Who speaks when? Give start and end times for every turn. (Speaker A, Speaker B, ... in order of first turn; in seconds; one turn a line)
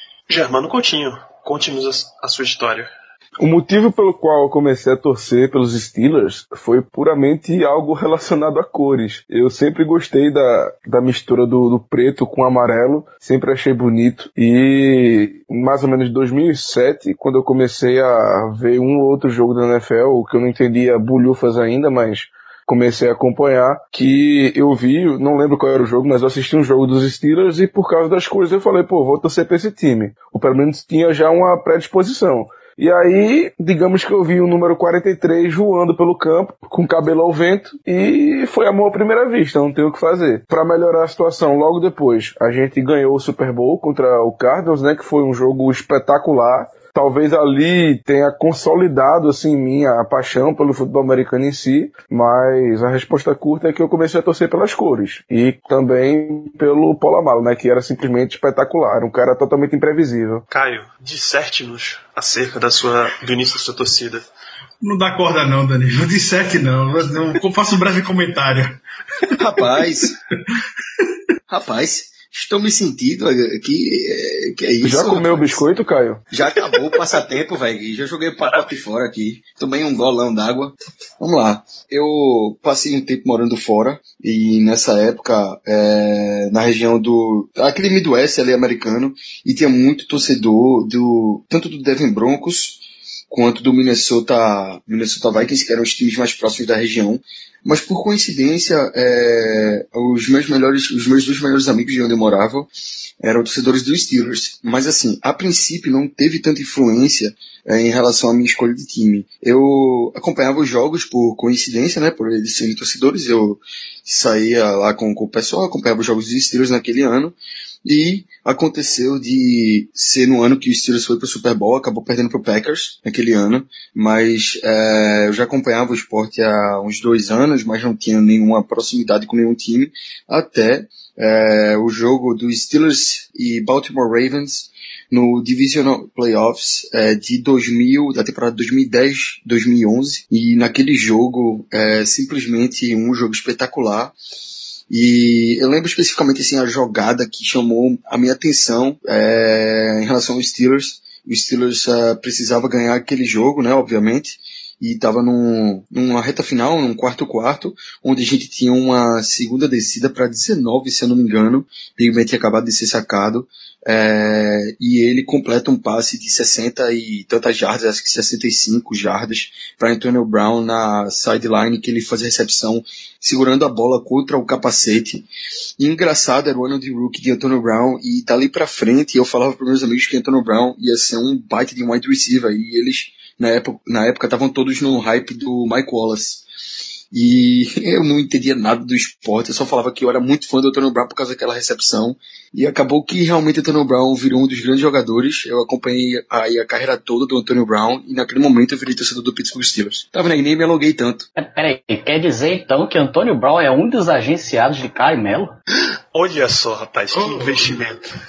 Speaker A: 0.3-2.9
Speaker B: 3.4-60.4
Speaker A: 60.5-64.2
Speaker C: 64.8-69.8
Speaker D: 69.3-70.1
Speaker D: 71.5-75.6
Speaker B: 74.8-76.2
Speaker D: 76.3-102.7
Speaker A: 78.4-78.7
Speaker D: 103.2-144.2
Speaker D: 144.9-175.2
Speaker D: 175.8-186.4
Speaker D: 187.1-201.3
Speaker E: 201.4-205.5
Speaker A: 206.1-208.1
Speaker C: 207.1-207.8